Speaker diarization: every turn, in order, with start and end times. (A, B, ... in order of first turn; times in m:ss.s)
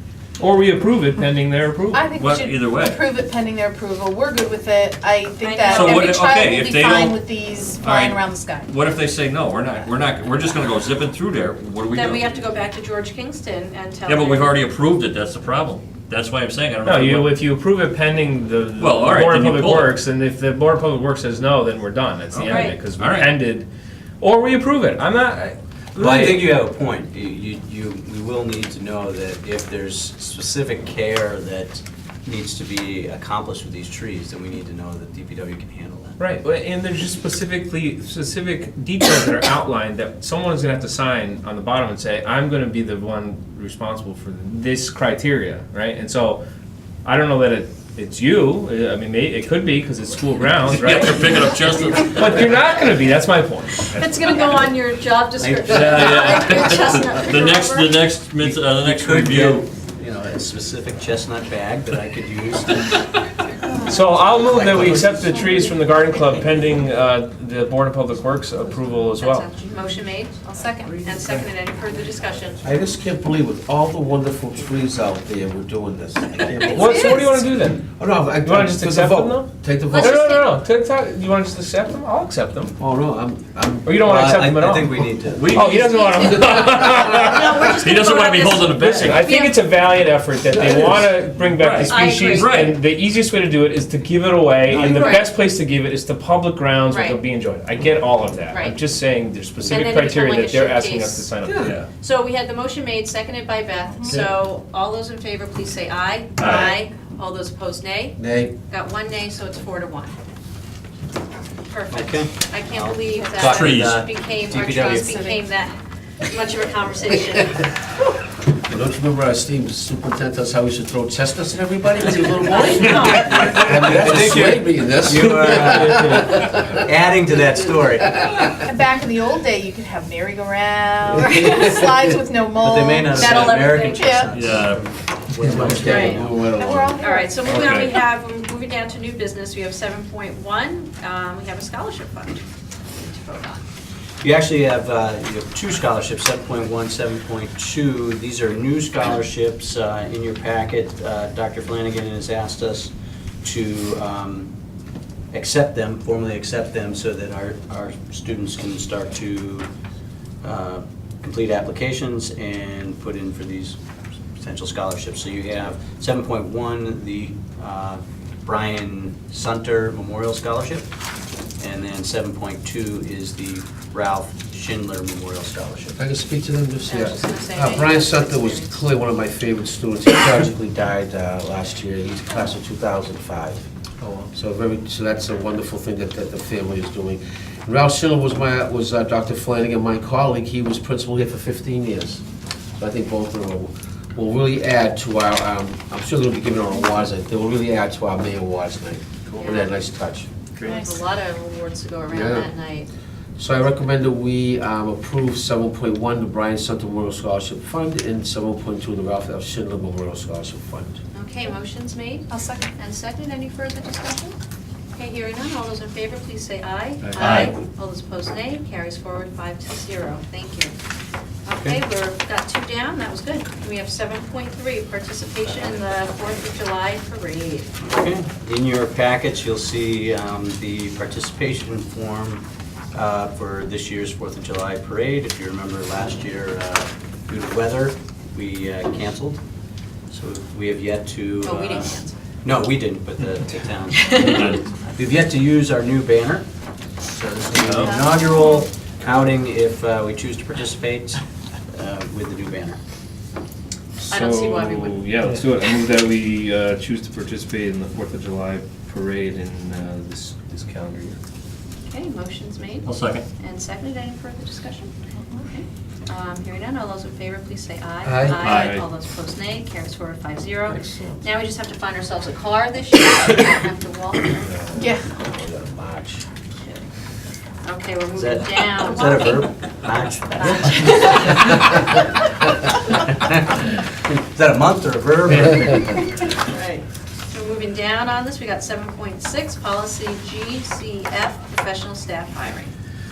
0:00.4-0:02.1 A
0:01.9-0:08.7 B
0:02.1-0:03.0 C
0:05.4-0:06.1 D
0:05.7-0:07.2 C
0:07.8-0:12.3 C
0:11.9-0:14.6 D
0:14.0-0:17.4 C
0:16.8-0:23.7 A
0:18.8-0:19.9 C
0:22.3-0:23.4 C
0:22.4-0:22.8 D
0:24.2-0:26.5 A
0:26.0-0:36.2 E
0:36.2-0:46.4 A
0:47.0-0:51.5 A
0:50.7-0:52.5 C
0:52.1-0:54.0 A
0:53.9-0:58.0 D
0:55.4-0:56.3 E
0:55.7-0:59.7 C
0:55.8-0:56.2 A
0:58.4-1:02.9 E
1:03.6-1:04.2 B
1:03.8-1:09.5 A
1:04.5-1:05.5 E
1:09.2-1:12.6 D
1:10.3-1:11.0 B
1:12.6-1:20.4 F
1:16.7-1:17.9 A
1:16.9-1:17.2 B
1:18.4-1:22.7 A
1:19.9-1:20.5 D
1:22.8-1:24.0 F
1:23.8-1:27.6 A
1:24.0-1:25.5 E
1:25.4-1:26.0 C
1:25.6-1:29.7 D
1:26.2-1:27.7 F
1:27.7-1:29.4 C
1:28.7-1:41.8 A
1:30.5-1:31.1 F
1:31.5-1:32.8 C
1:31.8-1:32.8 D
1:34.7-1:35.3 D
1:36.9-1:37.2 D
1:38.5-1:38.8 D
1:39.6-1:50.2 D
1:41.6-1:41.9 C
1:46.4-1:46.8 C
1:48.2-1:48.5 F
1:51.7-1:57.7 D
1:51.9-1:55.1 E
1:53.1-1:53.5 B
1:53.5-1:54.0 C
1:54.6-1:55.5 B
1:58.6-2:06.8 F
2:02.6-2:03.2 D
2:03.2-2:08.2 E
2:05.4-2:06.5 A
2:08.0-2:08.6 F
2:08.6-2:14.5 B
2:11.1-2:12.0 F
2:12.6-2:16.5 E
2:13.3-2:13.9 D
2:14.3-2:14.8 C
2:15.4-2:15.8 C
2:15.4-2:17.0 F
2:15.8-2:16.2 D
2:16.5-2:17.8 B
2:17.0-2:22.4 D
2:17.4-2:17.9 C
2:23.0-2:23.6 D
2:24.2-2:32.9 E
2:33.4-2:34.5 E
2:35.3-2:39.7 E
2:40.4-2:43.8 E
2:44.4-2:50.9 E
2:51.6-2:56.0 E
2:56.0-3:03.6 F
2:56.8-2:58.9 D
3:04.3-3:12.2 F
3:12.8-3:20.3 F
3:19.4-3:19.8 D
3:20.6-3:21.0 B
3:20.6-3:22.9 D
3:22.1-3:22.5 F
3:23.4-3:31.0 F
3:31.1-3:34.3 D
3:32.3-3:32.7 B
3:34.9-3:40.7 D
3:37.1-3:37.5 C
3:41.4-3:47.7 D
3:41.5-3:41.8 E
3:47.8-3:59.4 E
4:00.1-4:01.9 E
4:01.4-4:02.1 D
4:01.5-4:01.9 C
4:02.4-4:06.4 E
4:03.9-4:04.5 D
4:04.1-4:04.6 C
4:07.1-4:11.2 E
4:07.6-4:08.0 A
4:07.8-4:08.6 D
4:11.7-4:12.8 E
4:14.0-4:21.2 A
4:14.1-4:15.1 D
4:21.9-4:24.9 D
4:22.8-4:23.2 C
4:25.4-4:34.5 D
4:28.0-4:28.4 F
4:28.4-4:28.7 C
4:28.4-4:28.8 A
4:30.7-4:31.2 F
4:34.7-4:35.1 B
4:35.0-4:36.2 F
4:36.6-4:36.8 D
4:37.6-4:39.6 D
4:38.1-4:41.7 E
4:40.3-4:41.6 D
4:43.1-4:43.4 E
4:44.1-4:45.9 E
4:47.3-4:52.7 D